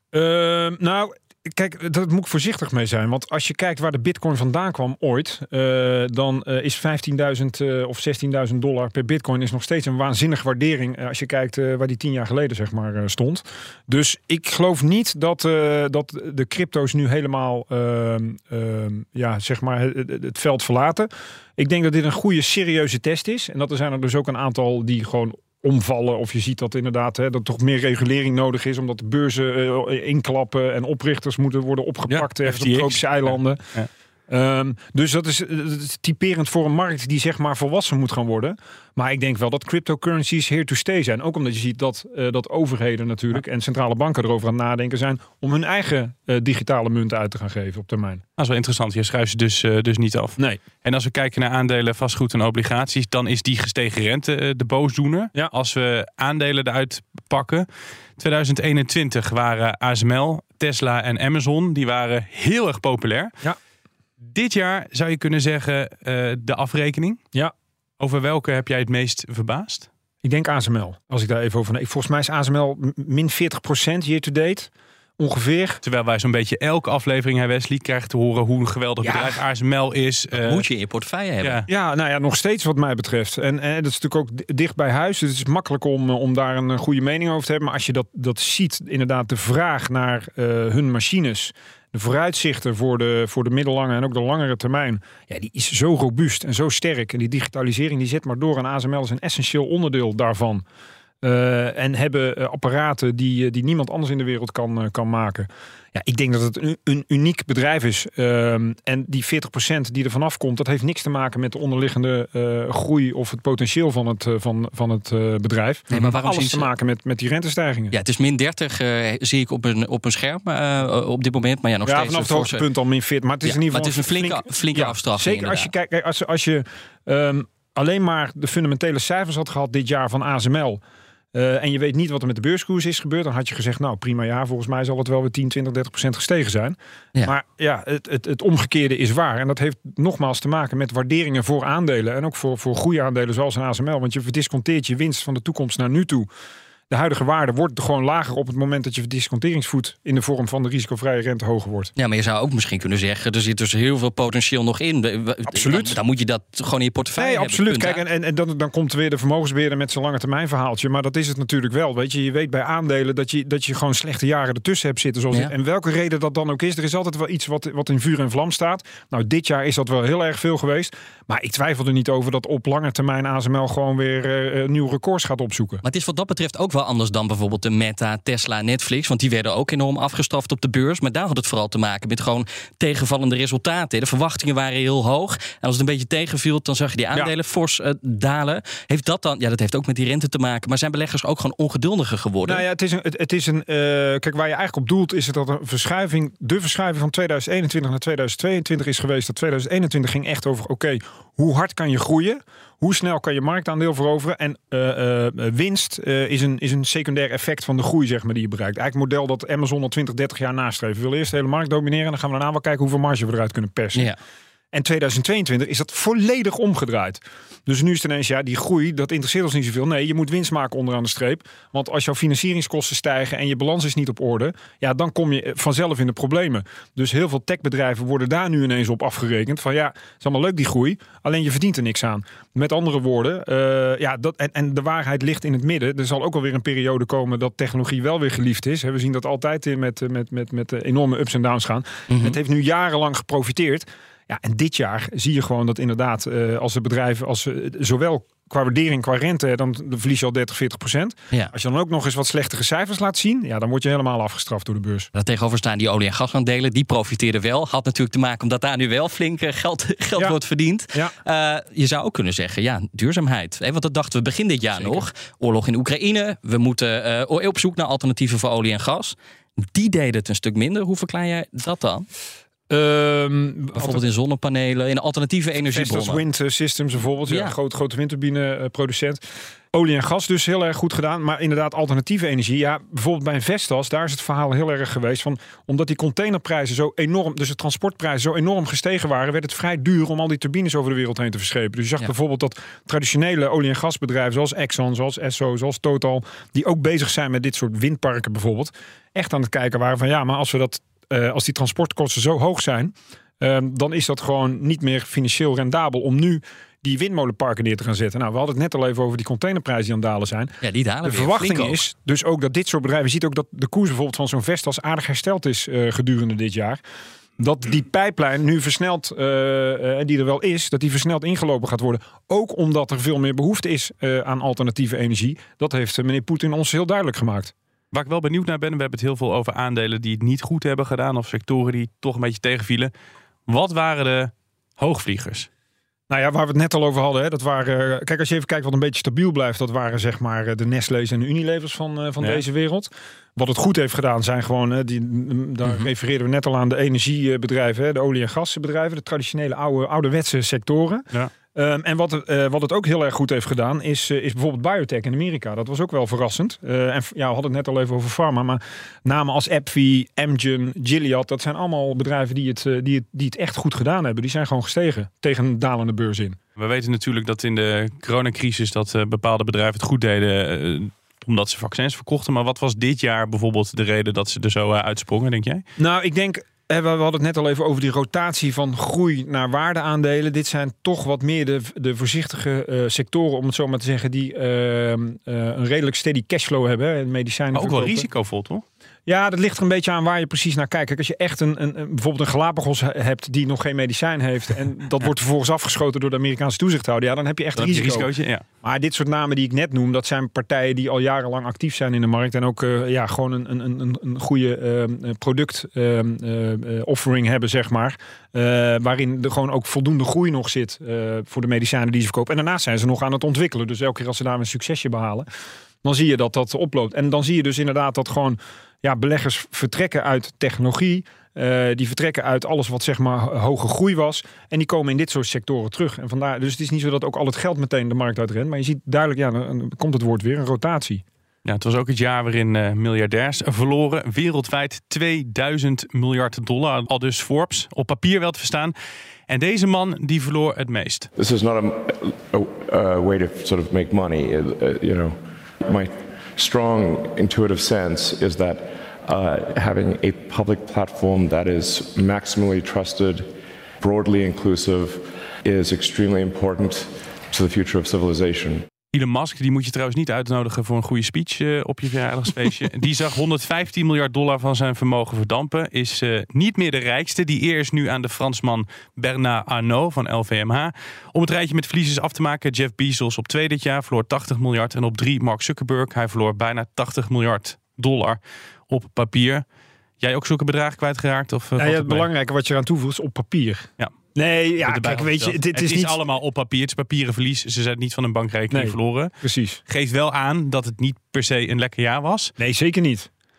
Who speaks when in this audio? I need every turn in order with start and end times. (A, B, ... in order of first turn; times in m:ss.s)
0:00.1-0:33.6 A
0:32.1-0:33.9 B
0:34.3-0:48.2 A
0:48.4-1:03.3 B
1:04.2-1:07.2 B
1:08.0-1:09.9 B
1:10.2-1:15.8 A
1:15.8-1:20.6 B
1:19.0-1:19.4 A
1:20.4-1:21.6 C
1:21.7-1:40.6 A
1:41.2-1:58.0 A
1:55.9-1:56.7 C
1:57.9-2:02.6 C
2:01.8-2:10.8 A
2:03.4-2:05.7 C
2:11.3-2:26.3 A
2:26.9-2:31.9 A
2:32.0-2:38.0 C
2:35.5-2:36.0 A
2:37.2-2:55.8 A
2:55.8-3:12.6 C
3:12.4-3:34.1 A
3:34.7-4:15.1 A
4:02.1-4:02.4 C
4:15.2-4:32.1 C
4:24.8-4:25.1 A
4:32.7-4:34.0 A
4:33.8-4:36.2 C
4:35.6-5:16.8 A
4:37.3-4:37.6 C
5:10.6-5:11.8 C
5:17.4-5:27.5 A
5:27.9-5:32.9 B
5:33.5-5:35.5 B
5:36.1-6:06.4 A
6:06.6-6:15.6 B
6:15.8-6:28.1 A
6:27.5-6:28.6 B
6:29.1-6:38.1 A
6:37.6-6:38.4 B
6:38.6-6:55.3 A
6:55.8-7:11.0 A
7:11.4-7:18.8 B
7:19.3-7:21.1 B
7:21.2-7:33.3 D
7:33.8-7:38.7 D
7:38.9-7:59.4 B
8:00.0-8:02.1 B
8:01.6-8:06.0 A
8:04.6-8:09.1 B
8:08.5-8:09.6 A
8:09.7-8:12.3 B
8:12.4-8:13.1 A